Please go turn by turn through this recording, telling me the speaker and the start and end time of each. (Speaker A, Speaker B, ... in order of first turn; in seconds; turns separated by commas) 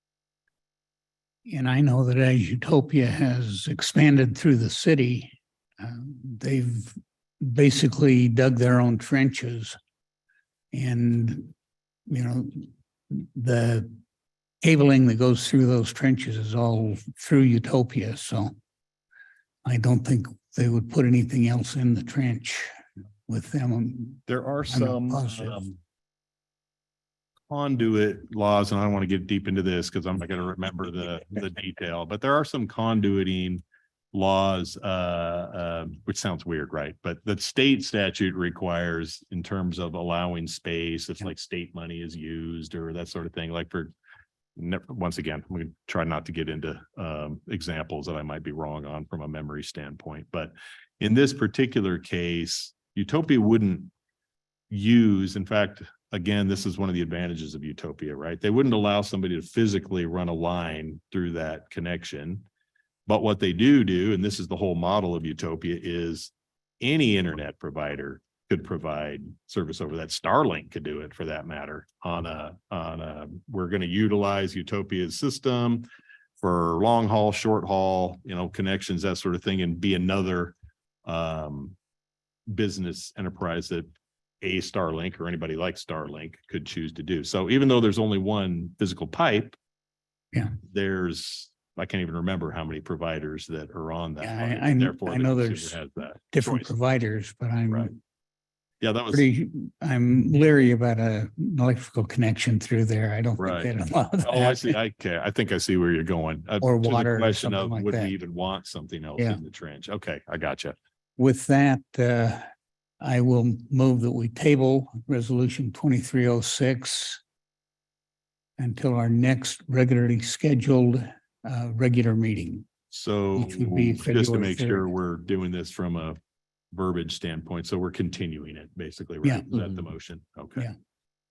Speaker A: 1.5-9.8, Speaker A: 10.7-11.5, Speaker A: 12.1-13.9, Speaker A: 14.6-18.5, Speaker A: 19.6-22.7, Speaker A: 23.3-25.7, Speaker B: 24.3-25.7, Speaker B: 27.5-43.9, Speaker B: 44.5-53.9, Speaker B: 54.7-62.5, Speaker B: 63.1-75.8, Speaker B: 76.4-81.7, Speaker B: 82.5-83.9, Speaker B: 84.4-89.5, Speaker B: 90.7-96.7, Speaker A: 94.2-95.8, Speaker A: 96.3-98.0, Speaker B: 98.8-99.2, Speaker A: 99.1-104.7, Speaker B: 103.4-110.7, Speaker A: 106.6-108.1, Speaker A: 111.2-112.4, Speaker A: 113.0-117.2, Speaker A: 118.6-122.7, Speaker B: 122.9-126.2, Speaker A: 123.3-124.9, Speaker B: 126.7-130.7